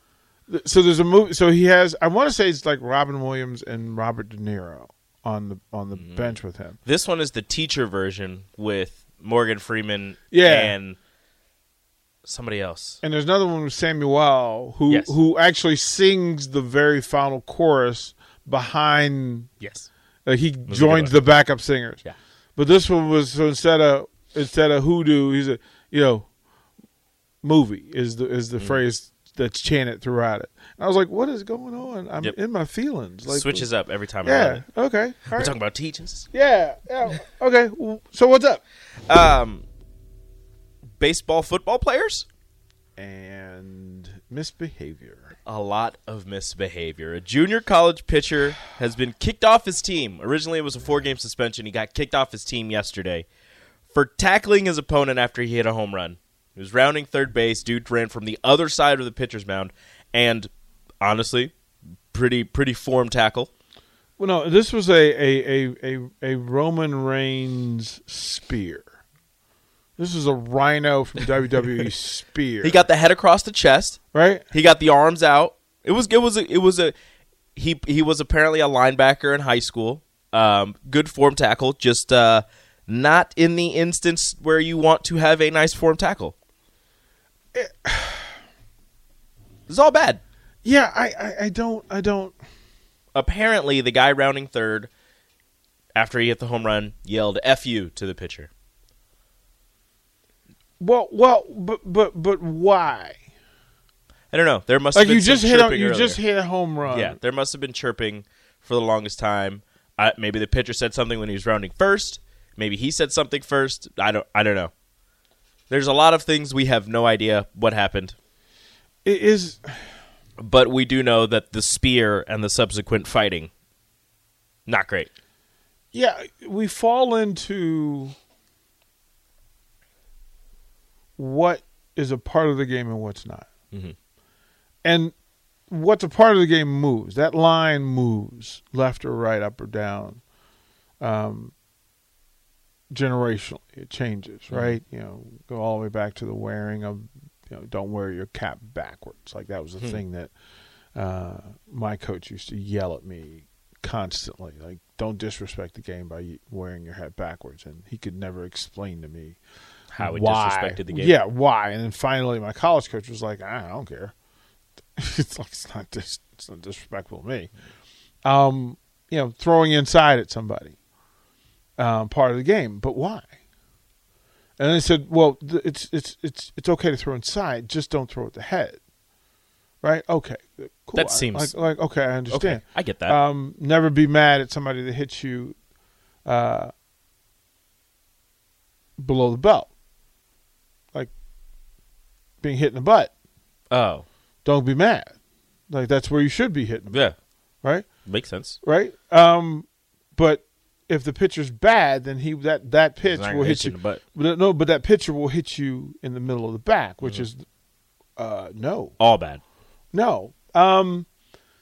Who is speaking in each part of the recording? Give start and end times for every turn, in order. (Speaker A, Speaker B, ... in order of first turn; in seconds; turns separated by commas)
Speaker A: 0.5-6.8, Speaker B: 6.0-11.0, Speaker A: 10.3-10.8, Speaker B: 12.2-13.0, Speaker A: 13.0-19.5, Speaker B: 14.9-15.2, Speaker B: 19.6-19.9, Speaker A: 20.2-22.0, Speaker B: 20.7-21.2, Speaker A: 22.6-26.3, Speaker A: 27.4-33.7, Speaker B: 33.3-34.6, Speaker A: 34.2-35.5, Speaker B: 35.3-36.3, Speaker A: 36.3-38.6, Speaker B: 39.1-39.6, Speaker B: 41.0-42.3, Speaker A: 43.0-45.4, Speaker B: 45.5-53.3, Speaker B: 53.9-60.5, Speaker B: 61.0-61.5, Speaker B: 62.1-63.5, Speaker A: 64.2-68.9, Speaker A: 70.0-72.8, Speaker B: 72.6-77.0, Speaker A: 74.1-74.5, Speaker B: 77.6-86.3, Speaker A: 87.5-88.4, Speaker B: 89.7-90.2, Speaker A: 90.6-92.4, Speaker B: 93.1-94.9, Speaker B: 96.0-98.5, Speaker A: 100.8-103.2, Speaker B: 104.3-106.2, Speaker A: 104.9-107.2, Speaker B: 106.8-114.7, Speaker B: 115.7-118.2, Speaker A: 119.0-119.8, Speaker B: 120.4-123.5, Speaker B: 124.7-125.1, Speaker A: 125.9-128.1, Speaker A: 131.2-133.5, Speaker A: 134.8-135.1, Speaker A: 135.7-140.2, Speaker A: 141.0-141.5, Speaker A: 142.9-150.3, Speaker B: 144.5-144.8, Speaker A: 150.9-159.4, Speaker B: 159.9-161.2, Speaker A: 160.0-164.1, Speaker A: 165.0-167.5, Speaker A: 168.2-170.8, Speaker A: 171.8-173.3, Speaker A: 174.6-178.8, Speaker A: 179.8-185.6, Speaker B: 180.9-181.5, Speaker B: 182.3-183.2, Speaker A: 186.2-186.7, Speaker A: 189.0-189.7, Speaker A: 192.4-193.1, Speaker B: 193.7-194.1, Speaker A: 194.4-195.1, Speaker A: 195.7-197.1, Speaker B: 196.9-197.2, Speaker A: 197.6-197.9, Speaker B: 198.1-198.6, Speaker A: 198.6-207.4, Speaker B: 203.0-204.0, Speaker B: 207.0-207.3, Speaker A: 208.2-209.0, Speaker B: 209.0-209.4, Speaker A: 209.9-211.1